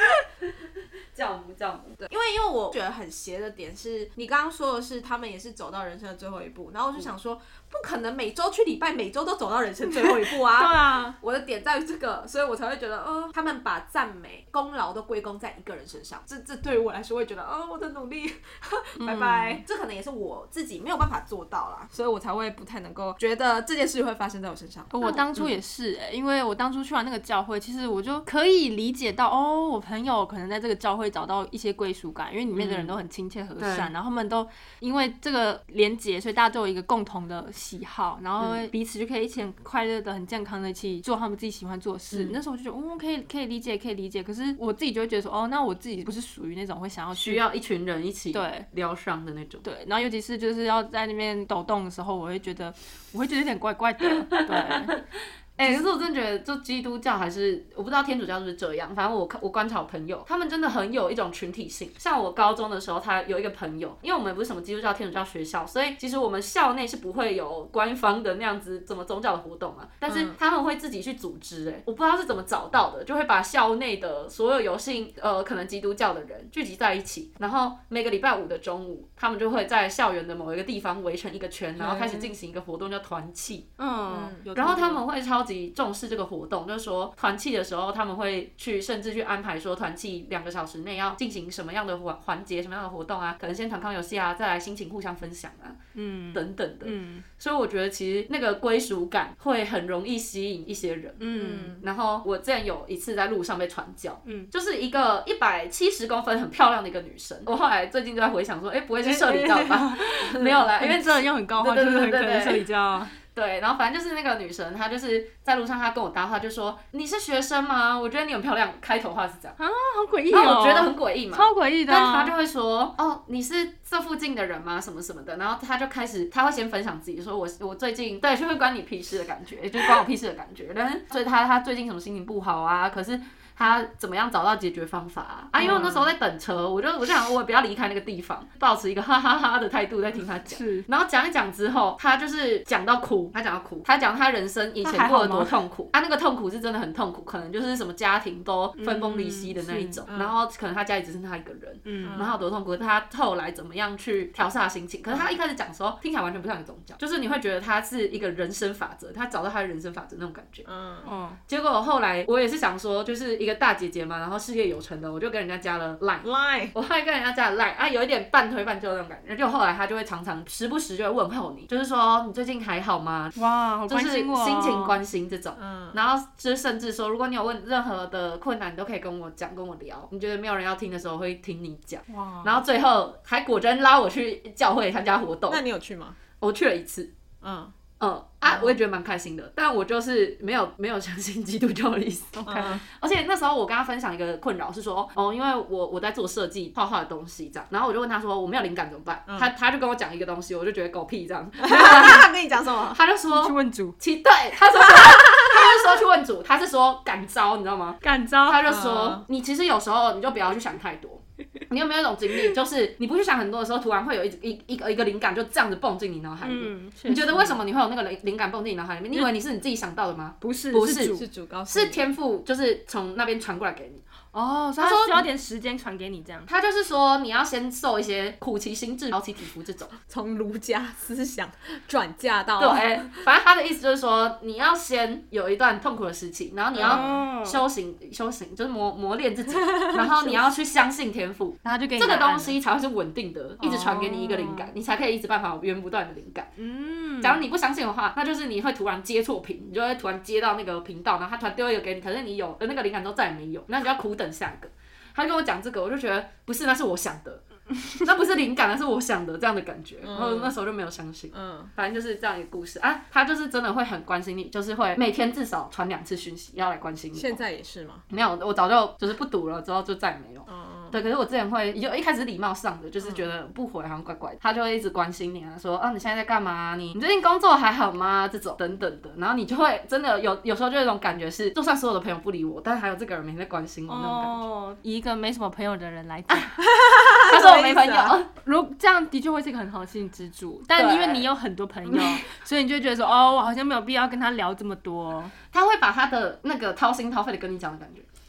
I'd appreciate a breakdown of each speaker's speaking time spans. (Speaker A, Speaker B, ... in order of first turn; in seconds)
Speaker A: 0.4-2.0, 25.1-25.6, 32.5-33.0, 33.6-33.9, 38.4-38.7, 42.1-42.4, 47.1-49.6, 54.3-54.9, 55.6-83.7, 84.5-95.8, 96.3-112.6, 113.2-119.6, 120.3-160.7, 161.5-173.3, 173.9-185.6, 186.4-187.1, 188.0-202.3, 202.9-224.0, 224.8-225.3, 226.5-229.9, 232.6-246.5, 247.2-267.4, 268.1-284.4, 287.2-288.3, 290.8-291.3, 291.9-292.2, 295.5-298.1
Speaker B: 2.0-25.2, 70.0-70.4, 84.1-85.0, 101.3-101.8, 135.6-135.9, 150.1-150.4, 152.0-152.3, 160.7-161.1, 166.2-166.7, 175.6-176.0, 182.1-182.6, 185.5-186.2, 187.4-187.7, 188.5-188.7, 192.4-192.8, 201.6-203.0, 204.7-205.8, 208.6-209.2, 221.1-222.1, 230.1-233.2, 236.7-237.1, 260.0-260.5, 261.3-261.7, 267.1-268.0, 270.5-271.0, 286.6-288.1
Speaker C: 9.8-11.2, 19.0-19.6, 24.9-47.4, 48.3-48.7, 49.6-55.0, 55.6-55.9, 81.8-82.3, 83.8-84.5, 95.9-97.2, 101.2-101.8, 104.2-104.5, 109.0-113.2, 119.6-122.3, 135.6-136.1, 140.5-140.8, 144.8-145.5, 148.8-150.1, 151.8-152.2, 161.0-161.4, 173.3-175.0, 203.3-204.0, 208.0-208.7, 216.4-217.5, 220.4-221.2, 224.3-226.5, 236.8-237.6, 241.6-242.6, 243.6-244.7, 246.6-247.4, 283.9-286.6, 288.4-295.3